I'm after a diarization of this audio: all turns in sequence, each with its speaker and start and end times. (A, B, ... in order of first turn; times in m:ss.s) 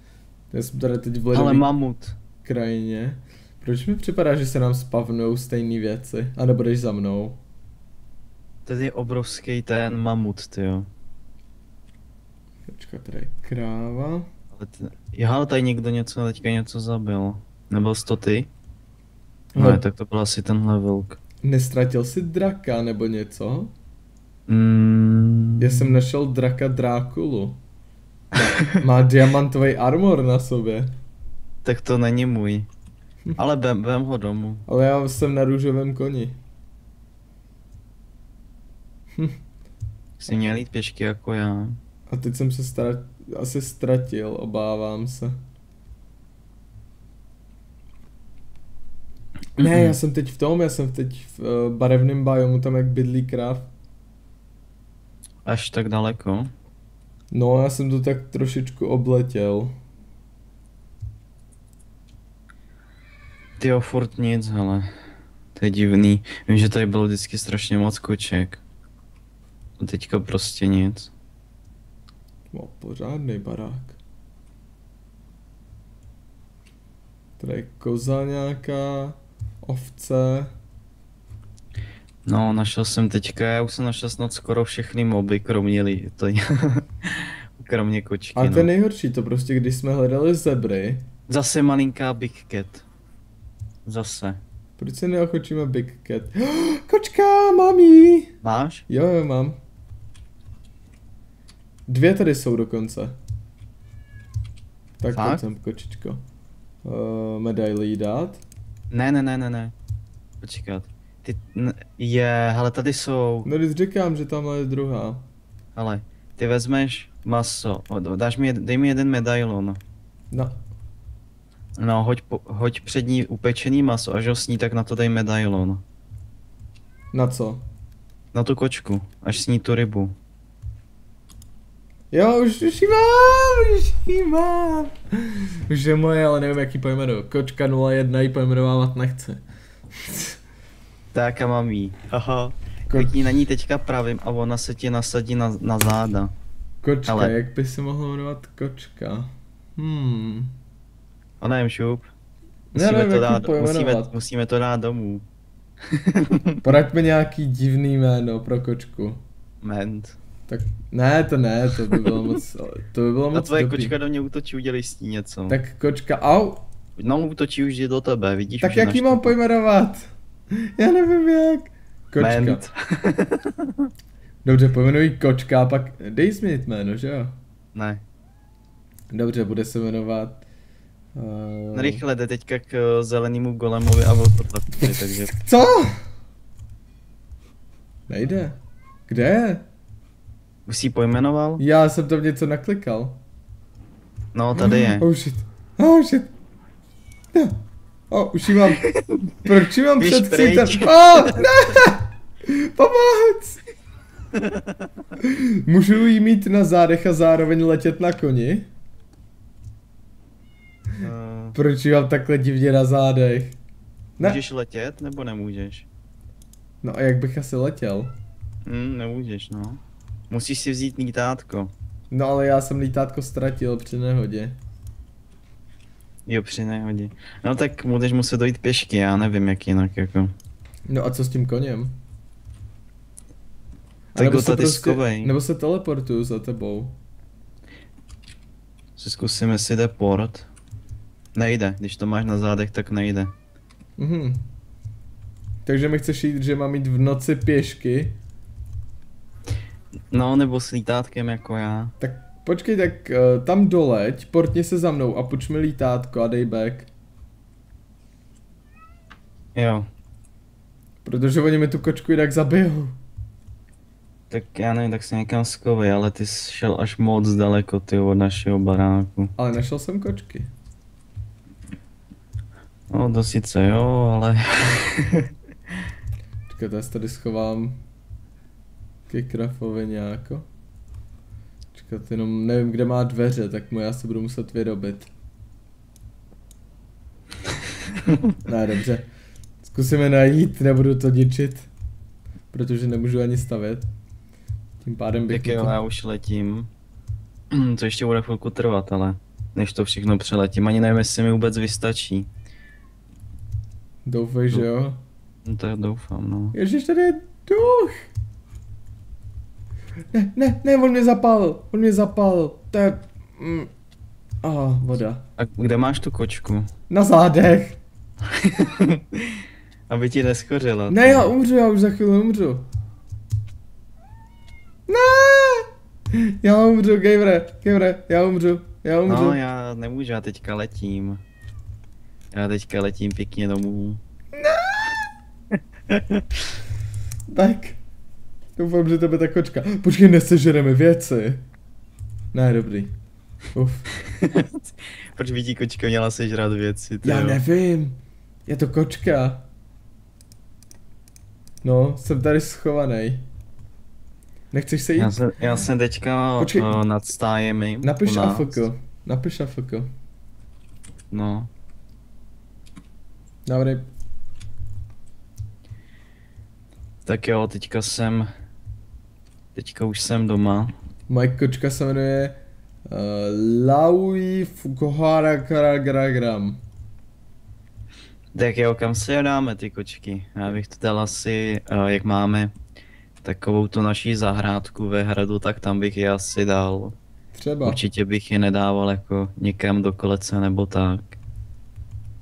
0:00.5-0:01.7 A
0:01.3-0:02.2 B
0:02.4-0:07.4 A
0:08.6-0:10.9 B
0:12.7-0:14.3 A
0:14.6-0:18.5 B
0:19.5-0:19.8 A
0:19.6-0:21.2 B
0:21.4-0:23.7 A
0:24.5-0:26.0 B
0:25.6-0:27.6 A
0:28.3-0:30.9 A
0:31.6-0:32.7 B
0:33.4-0:34.6 B
0:34.7-0:36.4 A
0:40.2-0:41.8 B
0:42.1-0:45.4 A
0:49.6-0:49.9 B
0:49.6-0:53.7 A
0:55.4-0:56.5 B
0:57.3-0:59.7 A
1:03.6-1:04.9 B
1:05.5-1:08.6 B
1:09.8-1:11.1 B
1:12.5-1:14.0 A
1:17.4-1:20.5 A
1:22.2-1:28.7 B
1:28.3-1:31.1 A
1:31.3-1:32.8 B
1:33.8-1:34.4 B
1:34.8-1:38.3 A
1:38.4-1:38.8 B
1:38.9-1:39.6 A
1:41.9-1:43.2 A
1:45.0-1:46.2 A
1:45.1-1:45.4 B
1:46.8-1:48.4 A
1:48.9-1:49.7 B
1:50.4-1:53.5 B
1:53.4-1:55.3 A
1:55.8-1:59.8 B
2:00.3-2:00.6 A
2:01.8-2:05.8 B
2:07.1-2:07.6 A
2:08.3-2:10.1 B
2:12.1-2:19.4 A
2:20.0-2:20.3 A
2:21.1-2:26.3 B
2:22.9-2:23.4 A
2:26.8-2:30.5 A
2:27.1-2:27.3 B
2:31.4-2:32.1 B
2:32.7-2:34.2 A
2:32.8-2:35.2 B
2:35.9-2:36.6 B
2:36.6-2:39.2 A
2:39.6-2:40.2 B
2:40.5-2:44.0 A
2:43.3-2:45.6 B
2:45.5-2:46.7 A
2:47.0-2:49.3 B
2:48.6-2:50.1 A
2:50.8-2:52.6 A
2:52.2-2:53.9 B
2:54.4-2:57.3 A
2:57.7-2:58.0 B
2:59.1-3:00.4 A
3:01.1-3:02.0 A
3:01.7-3:05.3 B
3:04.7-3:06.0 A
3:08.1-3:09.6 A
3:10.6-3:11.6 B
3:11.6-3:13.2 A
3:14.3-3:15.0 B
3:14.6-3:16.3 A
3:17.3-3:17.6 A
3:18.1-3:18.8 A
3:18.8-3:19.3 B
3:19.4-3:23.6 A
3:20.0-3:21.4 B
3:24.3-3:24.8 B
3:25.2-3:28.7 A
3:31.0-3:31.6 B
3:31.5-3:33.6 A
3:34.2-3:35.9 B
3:36.8-3:38.2 A
3:38.6-3:41.7 B
3:42.1-3:44.6 A
3:46.2-3:50.3 B
3:50.9-3:51.9 A
3:54.1-3:57.0 A
3:54.2-3:55.3 B
3:59.0-4:00.5 B
4:01.3-4:03.3 B
4:04.0-4:04.4 A
4:05.6-4:08.2 A
4:10.1-4:11.9 B
4:12.0-4:16.9 A
4:19.5-4:19.9 B
4:21.0-4:23.0 A
4:24.3-4:29.3 B
4:29.4-4:30.5 A
4:32.9-4:35.3 B
4:36.5-4:37.8 A
4:39.1-4:40.5 A
4:41.7-4:45.1 A
4:48.4-4:49.1 A
4:49.6-4:51.7 A
4:52.5-4:53.9 A
4:54.8-4:55.8 A
4:55.3-4:56.7 B
4:57.5-5:02.3 B
5:04.0-5:05.0 A
5:05.4-5:06.5 B
5:06.5-5:08.0 A
5:10.1-5:13.7 A
5:14.4-5:15.3 A
5:15.4-5:16.7 B
5:16.9-5:17.8 A
5:18.3-5:21.3 B
5:20.9-5:22.6 A
5:24.9-5:29.4 A
5:29.1-5:31.2 B
5:32.3-5:34.0 B
5:34.4-5:34.9 A
5:35.9-5:36.2 B
5:37.3-5:37.8 A
5:38.6-5:41.4 A
5:42.3-5:42.9 A
5:43.5-5:43.9 A
5:44.0-5:47.4 B
5:47.0-5:49.5 A
5:51.6-5:53.2 A
5:54.5-5:55.3 A
5:55.0-5:58.6 B
5:56.4-5:56.7 A
5:57.8-5:59.9 A
6:01.1-6:01.5 B
6:03.4-6:03.8 A
6:07.0-6:08.3 B
6:09.5-6:10.7 B
6:11.1-6:16.6 A
6:18.3-6:22.5 B
6:23.2-6:27.0 B
6:27.3-6:27.8 A
6:27.6-6:31.1 B